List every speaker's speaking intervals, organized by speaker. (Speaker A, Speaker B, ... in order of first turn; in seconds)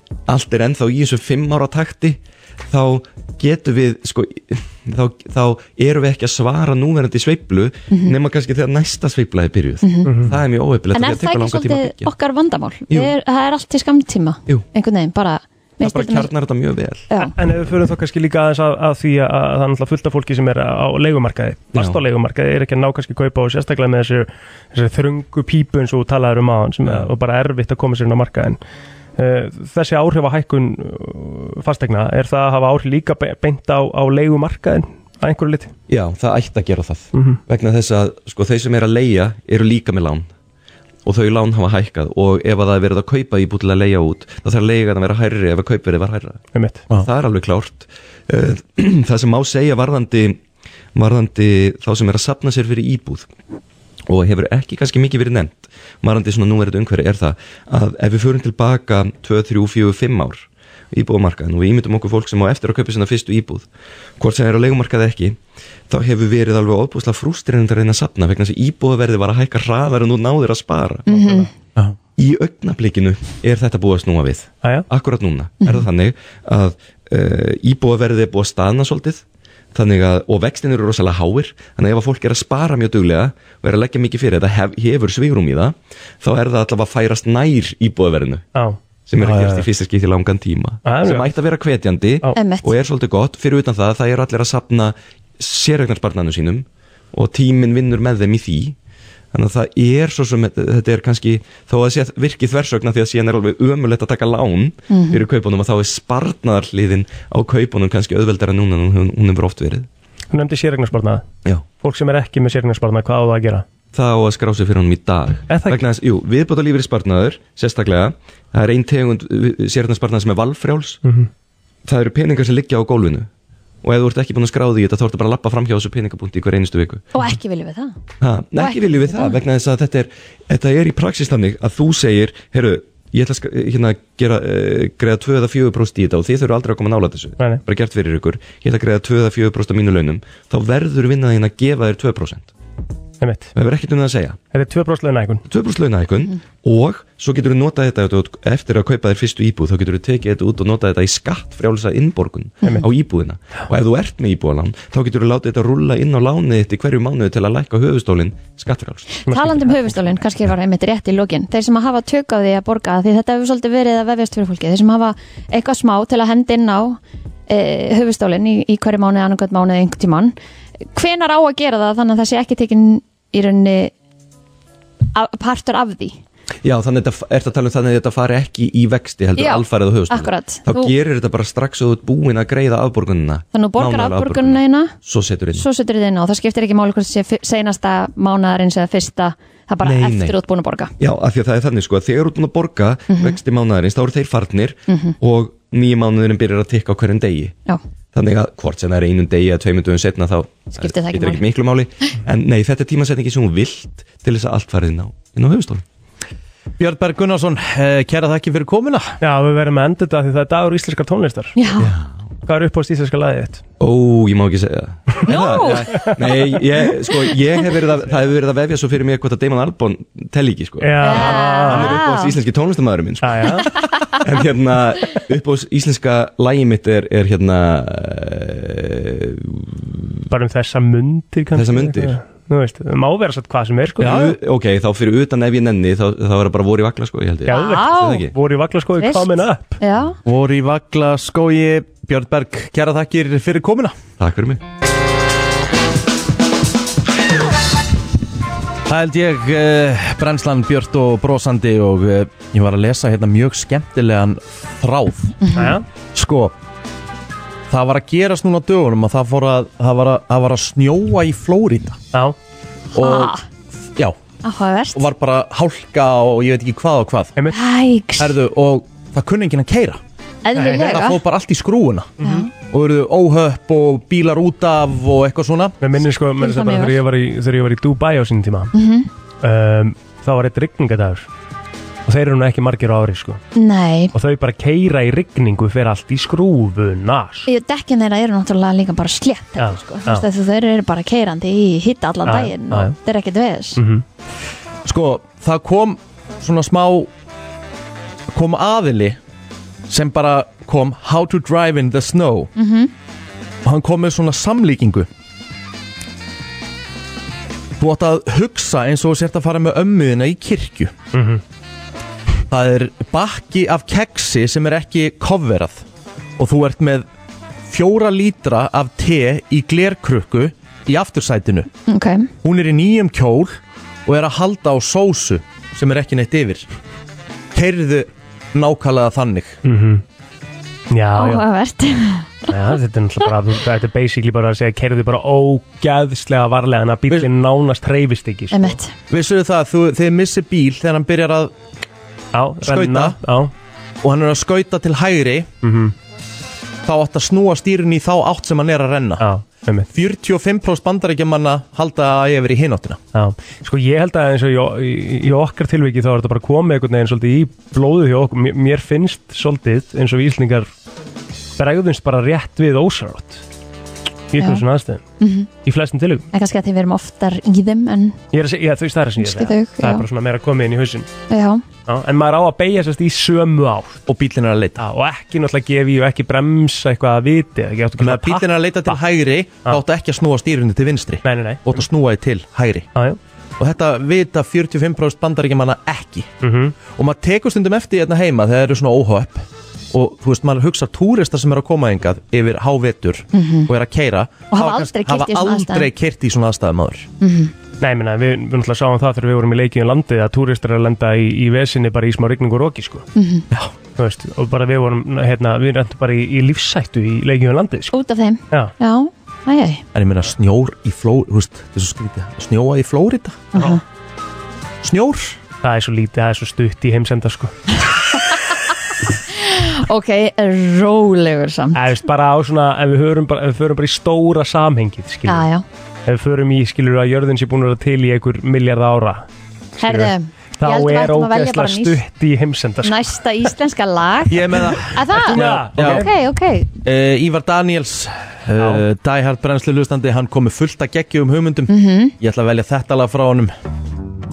Speaker A: 0.3-12.1, 12.9-13.1, 15.8-17.1, 21.7-22.0, 26.8-27.1, 35.9-40.3, 41.0-46.4, 46.9-50.4, 50.9-53.3, 54.1-63.7, 64.2-65.4, 65.9-71.3, 72.2-88.5, 89.1-98.8, 99.3-109.9, 113.9-121.0, 121.8-123.3, 123.8-127.0, 128.2-142.5, 143.5-144.4, 145.5-159.2, 176.6-185.7, 189.8-190.4, 191.0-197.6, 198.1-205.8, 211.8-212.1, 213.8-230.0, 231.5-232.2, 234.0-238.3, 244.2-244.6
Speaker B: 9.8-10.1, 10.9-16.3, 17.1-17.4, 71.1-71.5, 75.6-75.9, 92.3-92.7, 104.9-105.2, 127.1-127.9, 128.6-129.4, 159.2-170.3, 170.9-173.9, 175.1-176.2, 179.3-180.9, 183.5-184.9, 185.5-190.9, 193.1-193.4, 194.9-195.2, 200.8-201.4, 211.6-211.9, 215.2-216.2, 221.0-222.4, 237.5-238.3, 239.0-240.2, 255.4-255.8, 262.9-263.4, 264.4-265.0, 267.5-268.4, 270.4-271.2, 272.2-272.5, 276.4-277.0, 278.7-279.1, 283.5-284.1, 287.4-293.8, 302.6-302.9, 321.9-322.3, 331.2-332.5, 338.5-338.9, 364.4-364.6, 365.2-365.5, 366.3-368.2, 369.2-370.1, 371.3-371.6, 393.3-393.7, 394.5-395.9, 397.2-397.5, 403.1-403.5, 407.9-409.8, 413.5-413.8, 419.3-421.8, 425.2-425.6, 429.8-432.0, 432.8-436.7, 441.7-442.1
Speaker C: 10.0-10.3, 17.3-28.6, 29.2-35.7, 37.1-37.4, 46.5-46.8, 71.1-71.5, 74.6-74.9, 90.8-91.3, 110.3-111.2, 111.8-113.6, 115.5-115.8, 143.2-143.5, 144.5-145.4, 159.3-160.1, 209.2-211.6, 212.4-213.6, 220.8-222.0, 223.2-223.8, 230.3-234.3, 237.4-239.8, 255.6-255.8, 270.6-271.0, 272.2-272.5, 275.8-278.7, 279.4-281.3, 282.1-283.4, 284.1-287.5, 289.6-290.2, 292.2-292.9, 293.8-294.0, 311.1-311.4, 329.6-330.0, 330.9-331.4, 332.5-338.8, 342.3-343.5, 345.6-345.9, 349.2-349.9, 353.1-360.7, 361.6-363.4, 364.3-365.0, 365.6-366.2, 368.3-371.1, 371.9-374.0, 374.8-379.0, 381.2-381.8, 386.4-386.8, 397.8-403.1, 404.0-407.9, 415.6-417.5, 421.7-425.5, 426.1-429.2, 429.8-433.1, 435.1-436.1, 438.6-438.8
Speaker D: 89.2-89.6, 206.8-209.2, 234.0-234.3, 240.2-243.9, 248.9-255.3, 256.1-256.5, 257.7-262.0, 262.9-263.3, 264.9-267.4, 268.2-270.0, 270.8-272.1, 272.7-275.8, 294.8-297.1, 298.3-299.2, 299.9-302.5, 303.6-305.1, 307.8-310.9, 312.5-315.8, 316.4-317.1, 317.7-321.7, 322.4-326.7, 327.5-329.6, 339.1-341.5, 342.6-343.2, 344.0-345.5, 346.8-349.2, 349.9-353.0, 374.1-374.8, 378.0-382.9, 383.6-386.4, 386.9-397.1, 409.9-413.6, 414.8-415.4, 434.3-436.1, 436.8-443.5